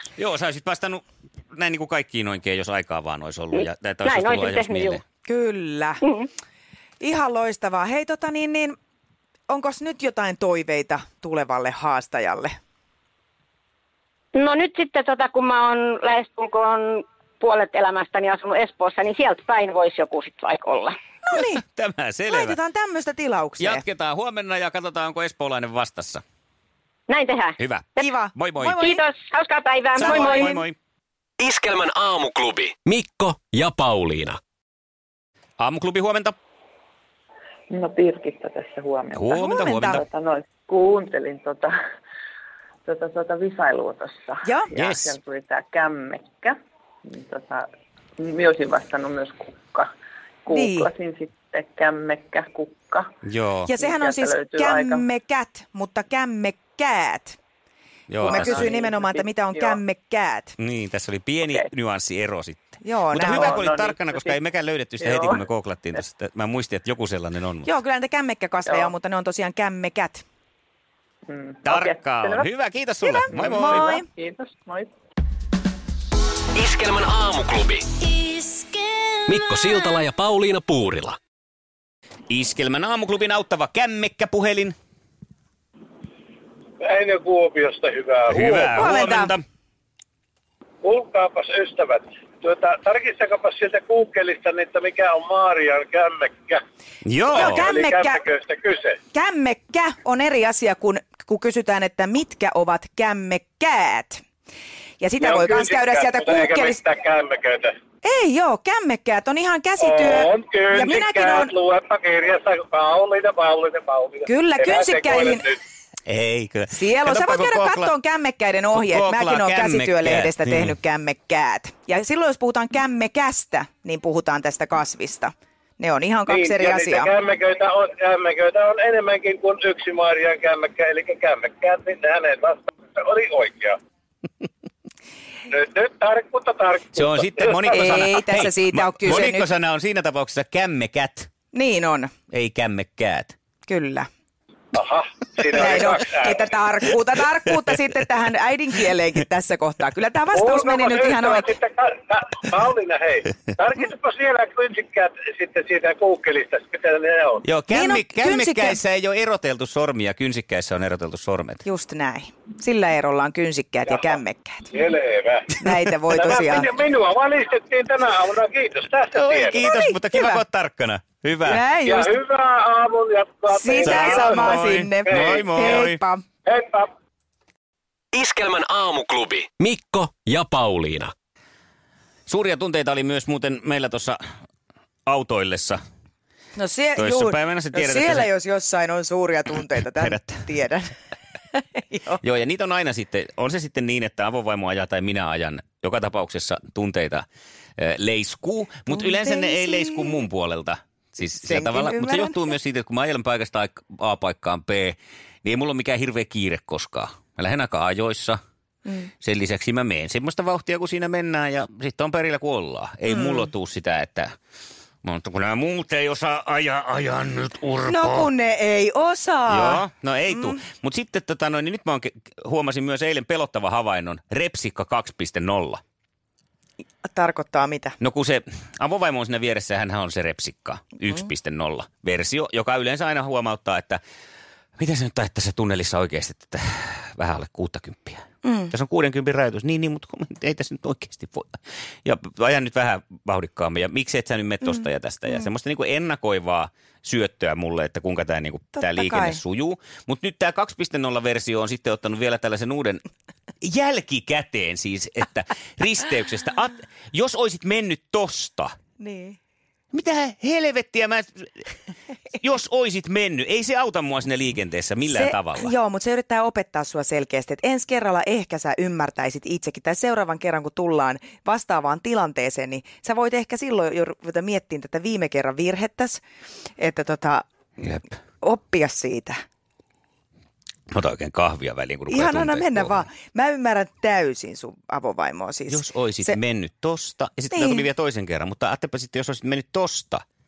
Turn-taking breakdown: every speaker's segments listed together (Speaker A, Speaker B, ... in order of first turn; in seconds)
Speaker A: 0.2-5.0, 21.4-22.6, 23.6-26.2, 27.6-28.8, 29.9-30.7, 35.6-36.3, 39.1-40.0, 44.7-45.1, 53.2-53.7, 58.1-58.7, 60.6-67.7, 71.6-74.0, 82.3-84.8, 88.3-89.4, 97.0-97.7, 116.1-117.9, 118.8-120.7, 136.9-141.3, 142.3-143.3, 157.4-161.6, 169.1-171.6, 173.8-176.0, 182.3-184.2, 185.1-185.8, 187.0-188.3, 190.0-190.4, 192.2-197.2, 197.8-208.4, 209.2-214.3, 215.0-218.3, 219.5-225.8, 228.0-234.0, 234.8-253.0, 253.6-258.7, 259.9-261.5, 262.4-265.7, 277.8-278.1, 280.9-283.1, 285.7-290.2
Speaker B: 3.5-5.0, 14.3-20.9, 27.1-28.1, 28.8-30.6
Speaker C: 5.2-6.0, 7.0-8.8, 9.5-12.6, 21.2-21.6, 22.3-23.8, 28.0-29.0, 30.0-30.6, 39.3-40.0, 44.4-44.7, 50.5-50.9, 53.7-57.4, 58.2-60.6, 62.8-63.7, 67.6-70.2, 73.0-74.0, 88.7-89.3, 97.3-98.2, 99.1-104.2, 105.0-106.8, 108.0-111.5, 114.2-115.5, 116.7-127.1, 137.7-139.5, 141.5-142.1, 143.7-144.1, 145.5-151.5, 157.7-158.8, 161.6-164.7, 165.6-166.7, 169.6-170.4, 171.4-172.1, 173.5-176.2, 186.6-190.9, 191.5-192.2, 198.9-200.2, 201.4-202.4, 213.1-213.5, 217.8-220.6, 227.0-228.0, 238.4-238.7, 244.7-245.4, 248.8-249.4, 259.0-259.4, 265.1-276.2, 276.8-277.4, 278.4-279.4, 282.1-286.4, 287.5-287.9
Speaker D: 31.4-34.4, 76.5-77.8, 79.3-81.2, 178.1-181.1
Speaker E: 37.7-41.8, 42.8-49.9, 50.5-53.1, 53.7-55.0, 58.2-59.8, 63.2-64.4, 65.0-65.5, 68.7-68.9, 71.3-72.5, 73.3-74.9
Speaker F: 86.8-88.9, 90.8-96.6, 97.3-99.0, 105.2-107.8, 109.8-115.6, 126.3-133.8, 135.5-137.9, 144.7-146.5, 150.3-157.4, 164.7-169.7, 171.8-175.5, 176.4-176.9